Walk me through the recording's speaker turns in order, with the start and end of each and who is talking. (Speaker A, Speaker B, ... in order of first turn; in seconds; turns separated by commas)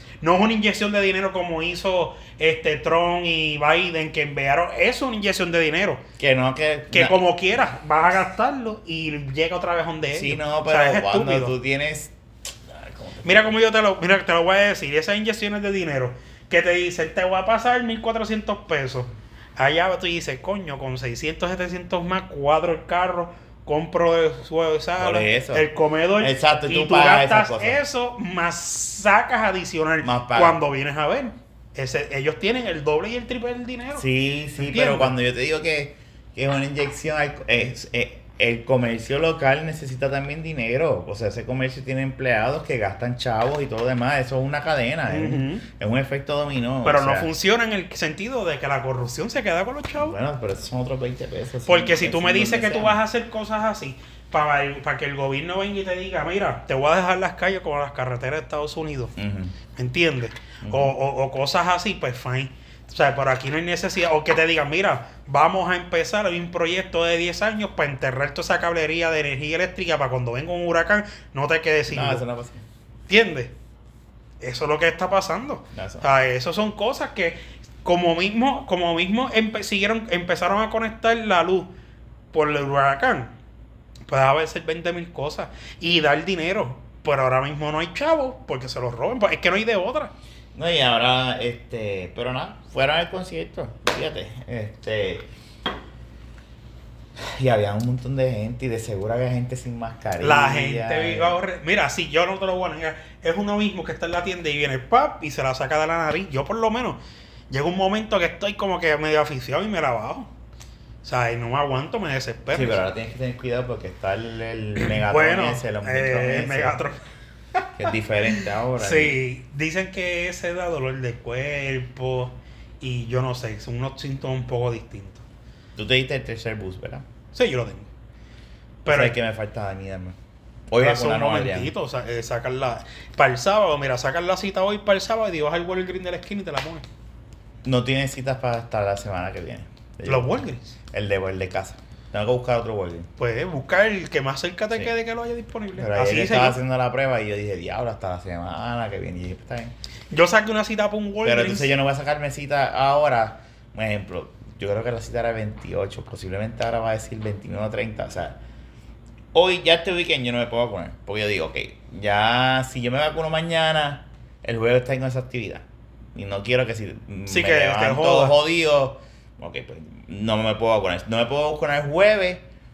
Speaker A: 0.2-6.0, Speaker B: 6.2-7.2, Speaker A: 6.9-11.5, Speaker B: 10.1-12.1, Speaker B: 12.7-13.6, Speaker A: 13.2-34.1, Speaker B: 25.0-27.8, Speaker B: 30.0-30.6, Speaker B: 34.0-47.3, Speaker A: 34.6-35.1, Speaker A: 45.1-45.6, Speaker A: 46.8-50.2, Speaker B: 50.0-53.0, Speaker A: 51.7-59.1, Speaker B: 59.2-59.6, Speaker A: 59.8-72.2, Speaker B: 60.6-60.9, Speaker B: 71.9-72.7, Speaker A: 73.1-73.5, Speaker A: 74.4-81.7, Speaker B: 75.7-76.1, Speaker A: 82.3-83.3, Speaker A: 84.1-90.1, Speaker B: 90.5-95.3, Speaker B: 97.2-101.4, Speaker A: 100.2-107.0, Speaker A: 107.5-110.3, Speaker A: 111.0-112.8, Speaker B: 112.5-116.8, Speaker A: 114.8-117.0, Speaker B: 117.8-119.2, Speaker A: 118.4-125.2, Speaker B: 125.8-127.0, Speaker A: 127.3-127.9, Speaker A: 128.8-129.2, Speaker B: 128.9-130.2, Speaker B: 130.7-131.7, Speaker A: 130.8-136.8, Speaker B: 137.6-140.4, Speaker A: 140.1-140.7, Speaker B: 140.9-143.1, Speaker A: 143.2-146.6, Speaker B: 145.8-149.7, Speaker A: 150.1-151.7, Speaker B: 151.2-158.4, Speaker B: 159.3-172.4, Speaker A: 167.3-168.4